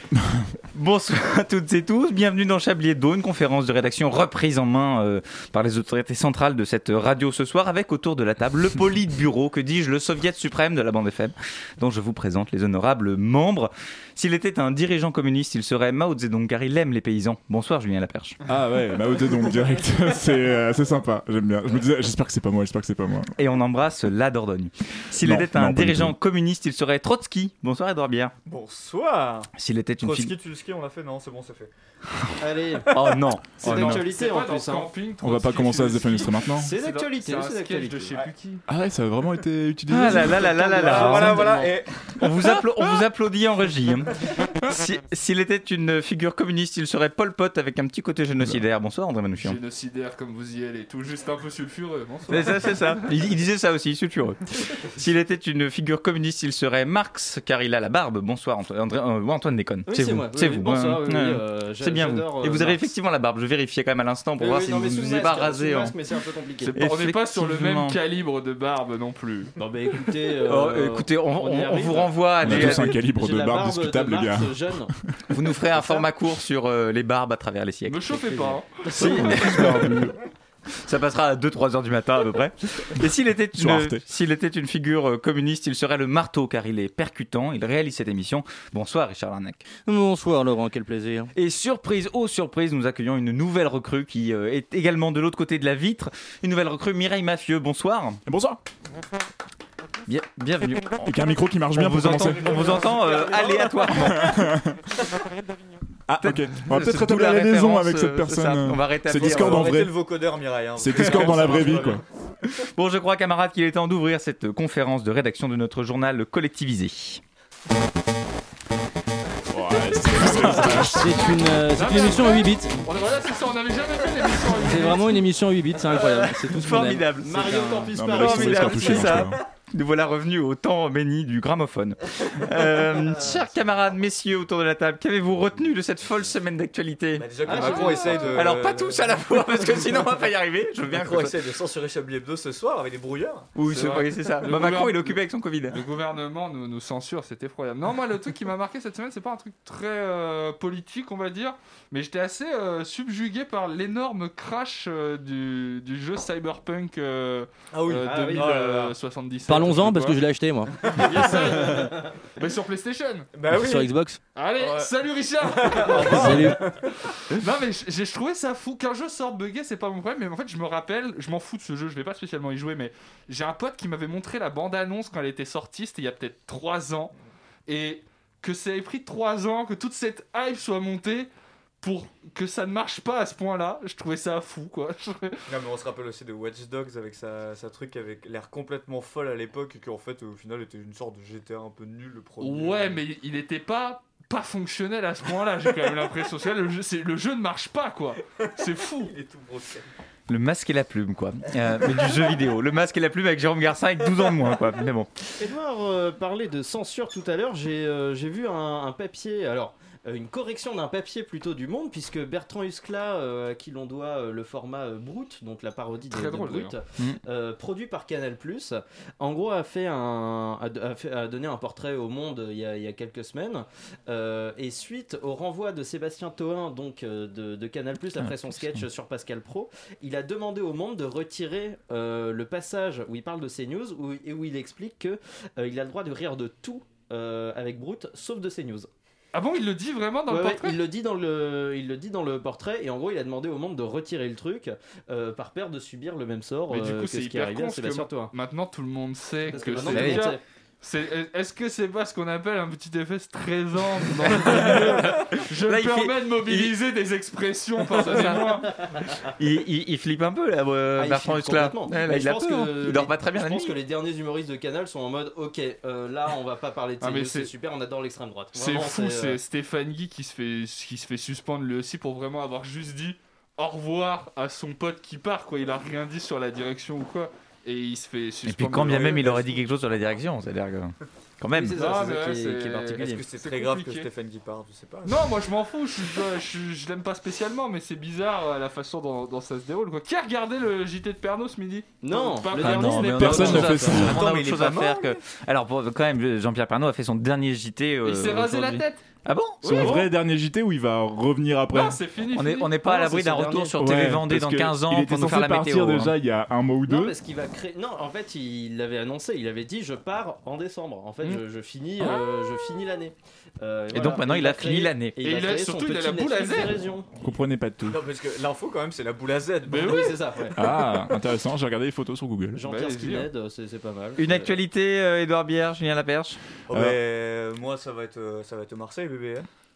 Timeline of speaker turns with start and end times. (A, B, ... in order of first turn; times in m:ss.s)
0:00.7-0:18.4 A
0:18.5-0:23.3 B
0:23.4-0:28.3 A
0:25.2-0:26.1 B
0:28.4-0:29.5 C
0:29.5-0:30.3 A
0:30.0-0:31.7 C
0:32.4-0:34.9 D
0:32.9-0:34.0 A
0:33.6-0:38.6 E
0:35.2-0:36.7 B
0:36.6-0:38.2 D
0:38.7-0:41.4 B
0:39.9-0:49.6 A
0:40.1-0:41.5 D
0:40.8-0:42.2 C
0:49.4-0:52.9 E
0:52.3-1:05.9 A
0:59.8-1:02.9 D
1:04.4-1:06.7 D
1:06.6-1:09.5 E
1:06.7-1:08.0 A
1:09.6-1:14.9 D
1:10.4-1:12.9 A
1:12.4-1:14.7 B
1:15.3-1:18.2 A
1:15.7-1:16.0 D
1:17.9-1:19.7 E
1:18.3-1:19.2 D
1:18.9-1:19.9 A
1:18.9-1:20.2 B
1:20.8-1:29.6 A
1:23.6-1:24.0 B
1:29.8-1:31.3 F
1:31.3-1:38.2 A
1:38.2-1:38.6 B
1:40.1-1:41.1 A
1:41.0-1:43.0 B
1:41.7-1:44.4 A
1:42.4-1:44.1 C
1:43.8-1:44.8 B
1:46.1-1:49.9 B
1:46.2-1:49.7 A
1:49.1-1:52.0 C
1:50.8-1:52.0 B
1:51.0-1:51.6 A
1:52.7-1:57.2 A
1:59.5-2:01.3 B
2:00.2-2:00.8 A
2:00.7-2:02.7 F
2:01.7-2:05.2 E
2:04.6-2:04.9 D
2:04.7-2:07.9 F
2:05.7-2:09.2 D
2:05.9-2:21.3 A
2:07.9-2:09.4 B
2:17.2-2:19.9 C
2:17.5-2:18.3 D
2:17.5-2:18.4 E
2:20.9-2:24.5 C
2:23.5-2:25.8 A
2:23.7-2:25.2 E
2:25.7-2:40.2 E
2:37.7-2:38.9 C
2:38.0-2:38.7 D
2:39.5-2:40.7 F
2:40.8-2:41.8 C
2:40.9-2:43.3 E
2:43.3-2:43.9 C
2:43.5-2:44.2 F
2:44.4-2:57.1 E
2:44.6-2:46.9 C
2:46.1-2:46.6 F
2:57.7-3:01.3 E
3:01.8-3:05.5 E
3:05.5-3:13.0 C
3:12.4-3:19.1 E
3:18.4-3:19.8 C
3:20.3-3:25.1 A
3:22.0-3:22.3 C
3:25.4-3:58.9 D
3:36.1-3:36.7 E
3:48.2-3:48.8 A
3:59.3-4:00.8 E
4:00.3-4:08.3 D
4:06.7-4:18.8 E
4:09.5-4:10.4 D
4:09.9-4:10.2 A
4:14.3-4:16.7 A
4:18.0-4:18.4 A
4:19.3-4:23.8 A
4:21.0-4:29.4 D
4:27.0-4:27.5 E
4:28.5-4:39.4 E
4:38.4-4:41.8 A
4:39.0-4:39.5 C
4:41.5-4:43.2 D
4:41.8-4:44.1 E
4:43.0-4:45.3 C
4:45.0-4:53.7 E
4:52.0-4:54.4 D
4:52.6-4:59.9 A
4:52.9-4:54.2 B
4:54.1-4:55.2 C
4:58.0-4:59.0 E
4:59.6-5:00.1 E
4:59.6-5:02.0 B
4:59.8-5:00.0 D
5:01.7-5:02.7 E
5:02.3-5:06.1 A
5:02.8-5:03.8 D
5:03.8-5:07.1 B
5:06.9-5:17.1 D
5:13.9-5:15.2 A
5:15.2-5:16.8 E
5:17.2-5:18.0 B
5:17.8-5:20.2 C
5:19.7-5:20.2 E
5:19.8-5:20.6 D
5:20.5-5:22.6 B
5:22.5-5:24.5 D
5:22.6-5:23.3 E
5:24.2-5:26.4 A
5:26.7-5:29.5 C
5:26.7-5:27.0 B